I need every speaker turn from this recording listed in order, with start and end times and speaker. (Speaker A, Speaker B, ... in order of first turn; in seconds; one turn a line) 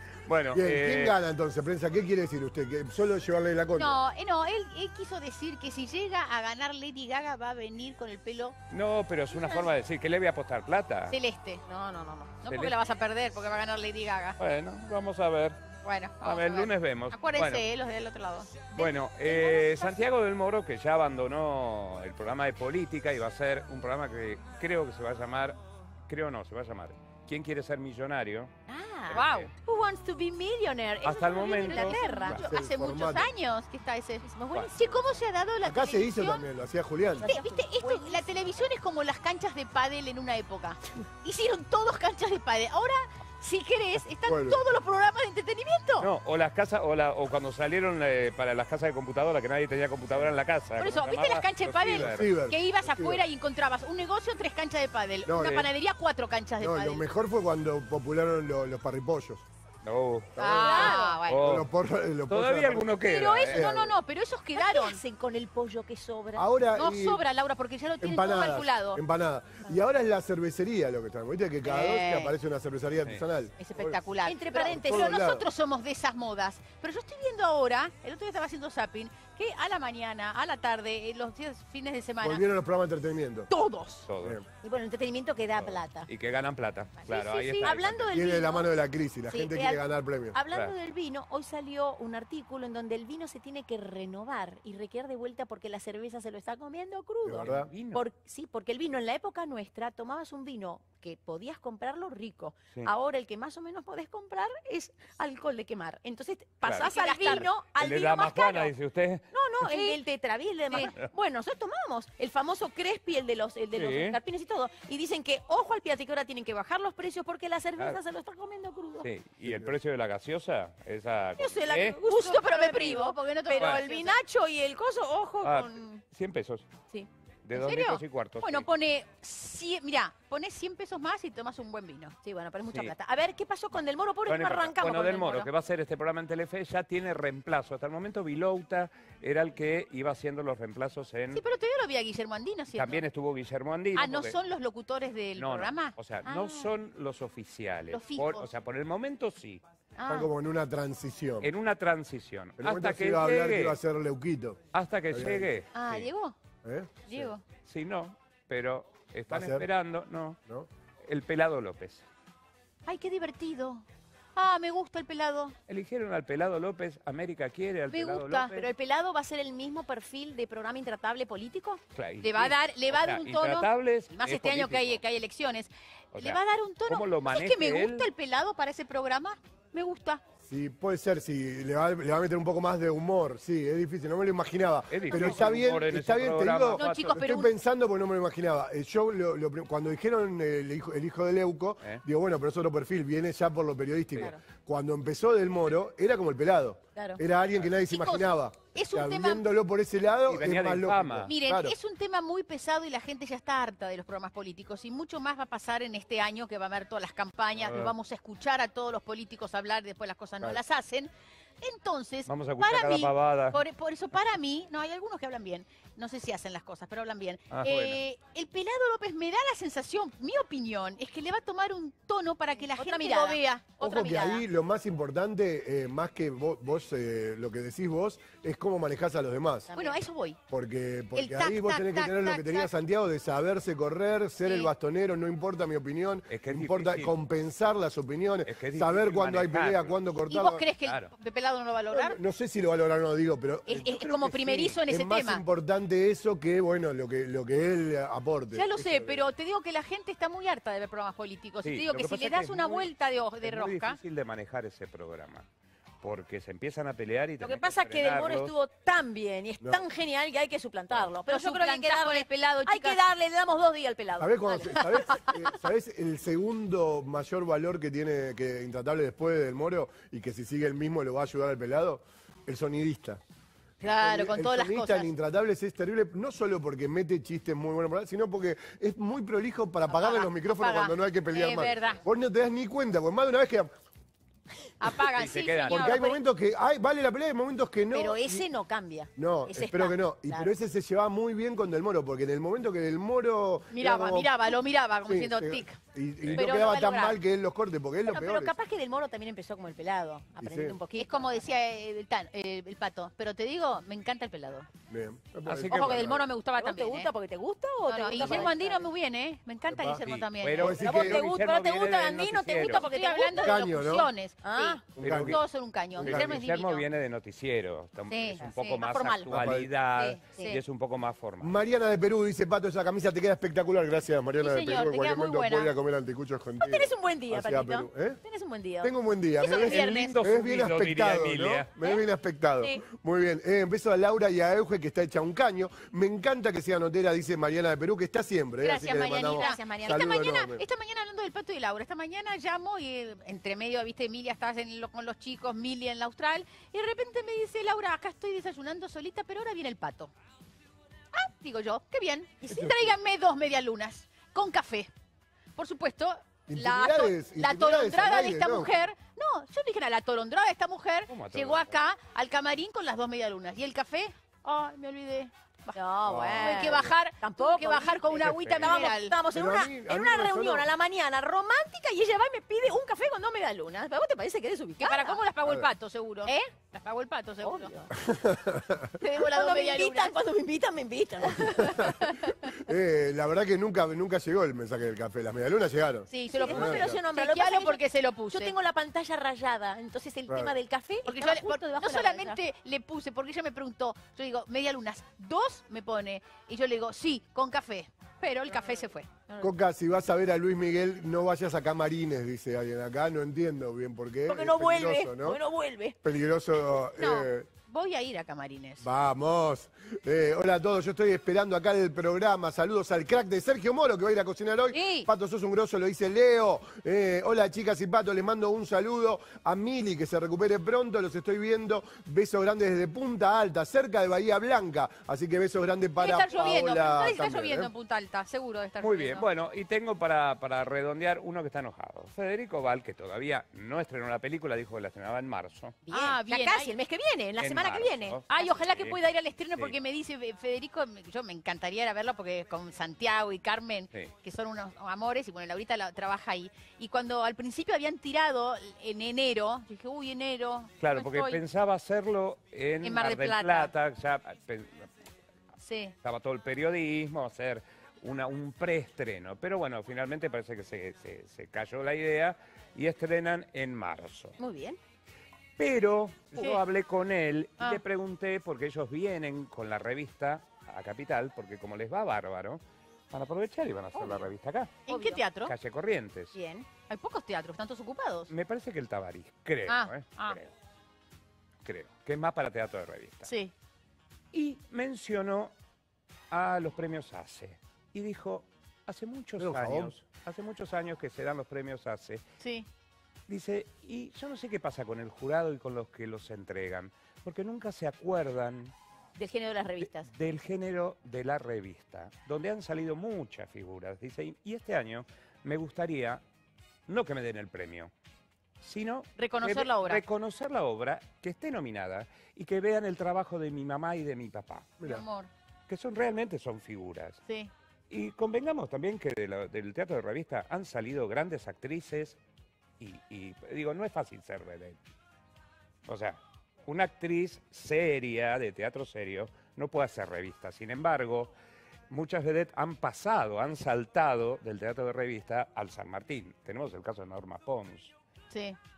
Speaker A: 0.2-1.2
Speaker B: 0.5-4.0
Speaker C: 3.8-8.6
Speaker A: 8.7-11.2
Speaker D: 9.3-9.6
Speaker C: 11.1-11.6
Speaker D: 11.7-12.3
Speaker C: 12.4-14.4
Speaker A: 12.5-12.8
Speaker A: 14.4-15.7
Speaker C: 15.8-19.9
Speaker A: 16.2-17.6
Speaker A: 18.7-28.5
Speaker D: 18.8-20.0
Speaker D: 28.7-32.4
Speaker A: 29.1-29.5
Speaker C: 29.1-29.5
Speaker A: 31.0-32.4
Speaker C: 31.1-34.2
Speaker B: 32.4-33.3
Speaker D: 34.2-35.1
Speaker A: 34.5-34.9
Speaker C: 34.8-36.4
Speaker B: 35.6-37.2
Speaker D: 37.1-38.3
Speaker C: 37.2-46.1
Speaker B: 44.2-44.8
Speaker A: 46.0-52.4
Speaker C: 50.8-57.0
Speaker B: 52.0-53.2
Speaker B: 55.2-55.6
Speaker A: 55.3-55.7
Speaker B: 56.6-59.4
Speaker A: 59.8-61.7
Speaker D: 60.4-61.2
Speaker C: 60.4-61.6
Speaker B: 61.4-64.0
Speaker A: 62.3-63.7
Speaker C: 63.0-65.0
Speaker D: 64.5-66.5
Speaker B: 66.3-67.2
Speaker C: 66.8-69.0
Speaker B: 68.0-74.0
Speaker C: 71.6-72.3
Speaker C: 73.6-82.4
Speaker D: 74.2-75.1
Speaker B: 74.7-75.5
Speaker B: 82.2-83.5
Speaker C: 83.5-84.0
Speaker A: 84.1-84.4
Speaker D: 84.6-86.1
Speaker A: 85.6-88.2
Speaker D: 87.0-88.7
Speaker C: 87.3-87.7
Speaker B: 88.1-90.4
Speaker D: 89.3-108.7
Speaker A: 90.4-90.7
Speaker B: 97.2-97.7
Speaker A: 97.4-98.1
Speaker A: 106.6-109.2
Speaker C: 106.8-107.5
Speaker D: 109.3-119.1
Speaker C: 109.6-110.0
Speaker A: 110.8-111.1
Speaker A: 113.7-114.2
Speaker A: 119.0-122.0
Speaker D: 121.4-126.0
Speaker C: 122.0-124.2
Speaker A: 123.5-123.8
Speaker A: 125.4-126.7
Speaker A: 127.4-128.7
Speaker C: 127.5-132.2
Speaker D: 132.2-135.4
Speaker A: 134.2-141.4
Speaker C: 141.3-143.1
Speaker A: 142.7-144.4
Speaker C: 143.9-146.4
Speaker A: 145.3-149.6
Speaker D: 146.3-146.6
Speaker C: 147.9-148.5
Speaker C: 150.0-150.3
Speaker B: 150.1-151.5
Speaker A: 151.4-153.8
Speaker B: 152.6-154.6
Speaker A: 154.7-156.1
Speaker B: 155.1-155.5
Speaker C: 155.7-156.4
Speaker B: 156.6-157.3
Speaker C: 157.1-157.4
Speaker A: 157.6-160.4
Speaker B: 159.3-159.6
Speaker A: 161.0-162.1
Speaker C: 162.8-163.8
Speaker C: 164.3-165.6
Speaker A: 165.7-168.7
Speaker D: 167.9-171.8
Speaker A: 171.9-175.0
Speaker C: 172.2-180.2
Speaker A: 176.1-178.1
Speaker B: 180.4-201.7
Speaker A: 184.9-187.3
Speaker D: 185.1-185.4
Speaker C: 185.2-185.4
Speaker C: 186.8-187.5
Speaker C: 197.8-199.4
Speaker A: 200.2-201.3
Speaker C: 201.3-211.1
Speaker C: 211.6-223.7
Speaker A: 212.2-213.6
Speaker A: 217.5-218.0
Speaker D: 222.8-224.4
Speaker B: 223.8-229.7
Speaker D: 229.7-230.0
Speaker C: 229.7-230.4
Speaker B: 230.5-240.6
Speaker C: 231.1-232.7
Speaker C: 234.4-234.7
Speaker A: 236.3-237.1
Speaker A: 238.4-240.0
Speaker C: 240.3-242.2
Speaker A: 240.8-241.1
Speaker B: 241.9-249.3
Speaker C: 243.7-245.4
Speaker C: 248.5-254.0
Speaker A: 251.6-255.5
Speaker A: 256.0-258.5
Speaker D: 257.4-265.3
Speaker C: 261.2-263.0
Speaker B: 264.2-273.2
Speaker C: 273.8-275.1
Speaker B: 273.9-283.7
Speaker C: 279.9-282.0
Speaker C: 284.8-286.2
Speaker A: 285.2-286.0
Speaker B: 285.7-288.4
Speaker D: 287.9-290.5
Speaker B: 289.2-294.3
Speaker C: 293.7-295.8
Speaker B: 295.1-298.5
Speaker C: 296.3-297.2
Speaker D: 298.1-301.5
Speaker B: 300.4-300.8
Speaker C: 300.9-304.7
Speaker B: 304.9-306.2
Speaker A: 305.4-306.2
Speaker C: 305.7-307.1
Speaker D: 306.6-308.8
Speaker C: 307.9-311.3
Speaker B: 309.7-311.2
Speaker A: 310.0-312.8
Speaker D: 310.7-313.6
Speaker C: 312.4-316.8
Speaker B: 313.3-314.1
Speaker D: 314.4-314.8
Speaker A: 314.9-315.4
Speaker B: 315.0-315.4
Speaker B: 316.0-316.4
Speaker A: 316.0-321.6
Speaker C: 318.1-319.3
Speaker B: 319.3-319.7
Speaker C: 320.0-320.6
Speaker D: 320.0-320.6
Speaker B: 321.4-328.2
Speaker C: 324.4-325.7
Speaker D: 326.6-328.9
Speaker B: 328.8-340.6
Speaker C: 329.4-330.2
Speaker A: 329.6-331.7
Speaker C: 338.6-350.1
Speaker D: 339.3-340.1
Speaker C: 351.1-354.9
Speaker B: 352.5-352.9
Speaker C: 355.6-365.8
Speaker B: 356.5-358.7
Speaker A: 361.1-361.8
Speaker D: 365.7-375.2
Speaker B: 366.1-366.9
Speaker C: 366.4-369.1
Speaker A: 368.3-368.8
Speaker B: 369.3-370.6
Speaker C: 374.8-377.7
Speaker D: 377.4-377.9
Speaker B: 378.0-378.9
Speaker C: 379.0-380.1
Speaker D: 379.2-382.2
Speaker B: 381.3-387.0
Speaker C: 386.1-388.5
Speaker D: 386.3-392.4
Speaker B: 390.3-390.5
Speaker C: 391.0-399.1
Speaker B: 399.4-405.4
Speaker D: 404.3-405.9
Speaker B: 406.0-407.5
Speaker C: 407.0-408.9
Speaker B: 408.8-427.7
Speaker C: 414.7-415.1
Speaker C: 426.0-429.3
Speaker A: 428.8-435.8
Speaker D: 435.9-438.6
Speaker C: 435.9-436.7
Speaker A: 437.4-439.0
Speaker C: 438.3-451.4
Speaker A: 450.8-454.9
Speaker C: 452.8-453.7
Speaker C: 455.6-455.9
Speaker A: 456.0-464.4
Speaker D: 464.4-464.8
Speaker A: 465.6-474.9
Speaker C: 466.3-466.6
Speaker D: 473.9-474.2
Speaker D: 474.9-475.2
Speaker C: 474.9-475.5
Speaker A: 475.4-476.4
Speaker D: 476.3-476.6
Speaker C: 476.7-478.3
Speaker A: 478.3-480.5
Speaker C: 479.6-480.4
Speaker A: 481.6-483.3
Speaker C: 483.2-483.5
Speaker A: 484.3-485.5
Speaker A: 486.3-492.2
Speaker B: 489.4-489.9
Speaker C: 492.4-492.7
Speaker A: 493.3-498.7
Speaker D: 499.1-500.1
Speaker A: 499.8-506.2
Speaker A: 506.9-507.9
Speaker A: 508.6-514.8
Speaker C: 509.2-510.0
Speaker B: 514.8-515.0
Speaker C: 514.8-515.3
Speaker A: 515.7-517.2
Speaker C: 517.2-517.5
Speaker A: 517.9-522.2
Speaker A: 522.8-524.8
Speaker A: 525.9-531.3
Speaker A: 531.9-537.9
Speaker C: 538.3-538.6